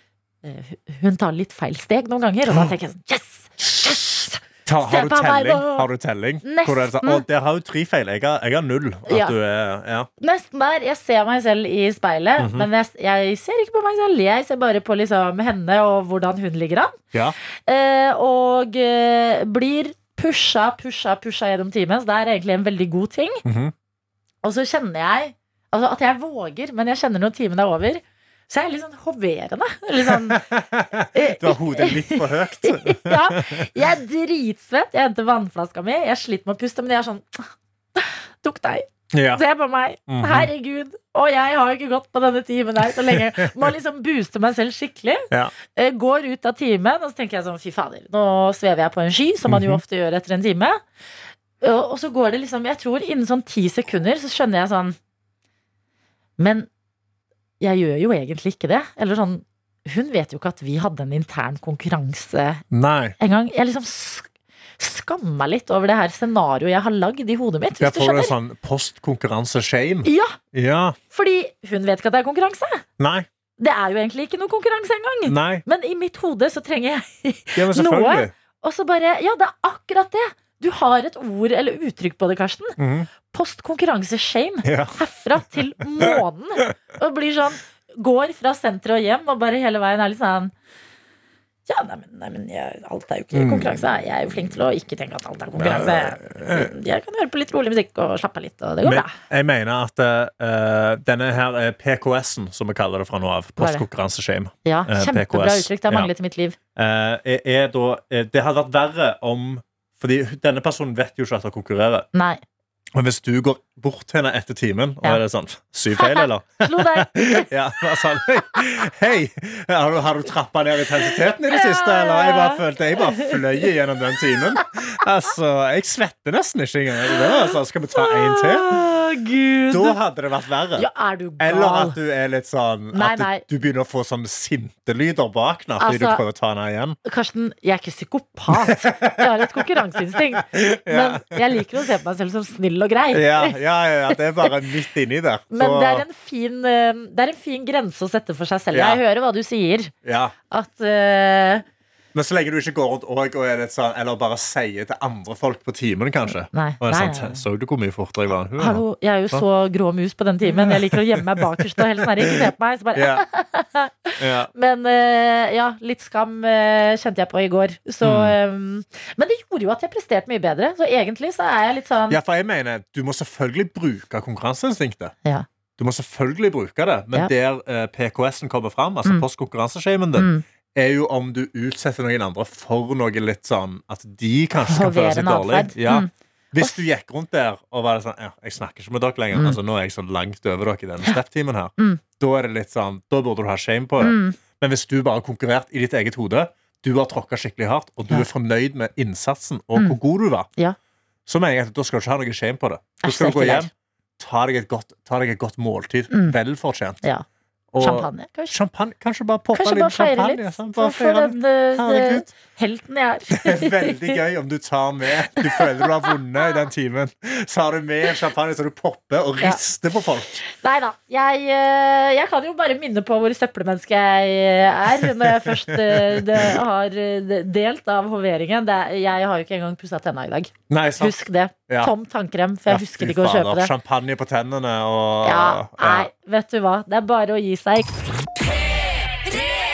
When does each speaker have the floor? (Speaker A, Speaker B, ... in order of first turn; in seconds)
Speaker A: 0.4-5.9, 6.4-7.2, 9.1-9.3, 10.2-17.0, 17.7-23.4, 24.4-30.4, 31.1-50.8, 51.6-55.0, 56.4-56.7, 57.6-62.6, 63.2-64.3, 64.8-68.3, 70.0-70.4, 71.1-72.8, 73.6-82.8, 83.3-90.5, 91.7-99.1, 103.6-103.9, 104.7-106.6, 112.1-112.4, 116.0-117.5, 121.5-122.6, 127.9-130.0, 130.8-132.0, 132.9-133.4, 135.8-136.2, 137.1-143.6, 144.1-144.5, 145.5-149.9, 150.5-151.6, 156.5-157.4, 158.6-172.2, 180.2-180.4, 184.6-186.8, 194.0-194.4, 203.0-203.7, 206.1-206.4, 207.8-208.6, 209.5-214.2, 215.4-215.8, 220.4-233.7, 235.2-238.1
Speaker B: 2.5-2.7, 4.7-10.1, 12.4-12.7, 23.4-23.7, 30.0-33.7, 39.1-39.4, 40.1-40.5, 42.9-43.7, 49.5-49.8, 62.7-63.1, 67.8-71.0, 73.0-73.3, 75.3-75.6, 77.5-78.3, 82.8-83.1, 84.6-85.5, 86.0-86.7, 93.3-93.8, 95.6-96.7, 98.8-106.1, 106.8-112.1, 112.9-128.8, 129.7-130.9, 131.4-137.0, 138.5-141.7, 143.1-146.1, 148.7-149.0, 150.0-150.3, 152.1-159.4, 160.4-162.4, 162.9-163.2, 164.2-164.5, 168.0-168.4, 172.1-175.2, 175.8-200.5, 201.3-207.0, 207.7-212.3, 213.3-220.4, 225.2-226.6, 230.7-231.9, 232.7-236.1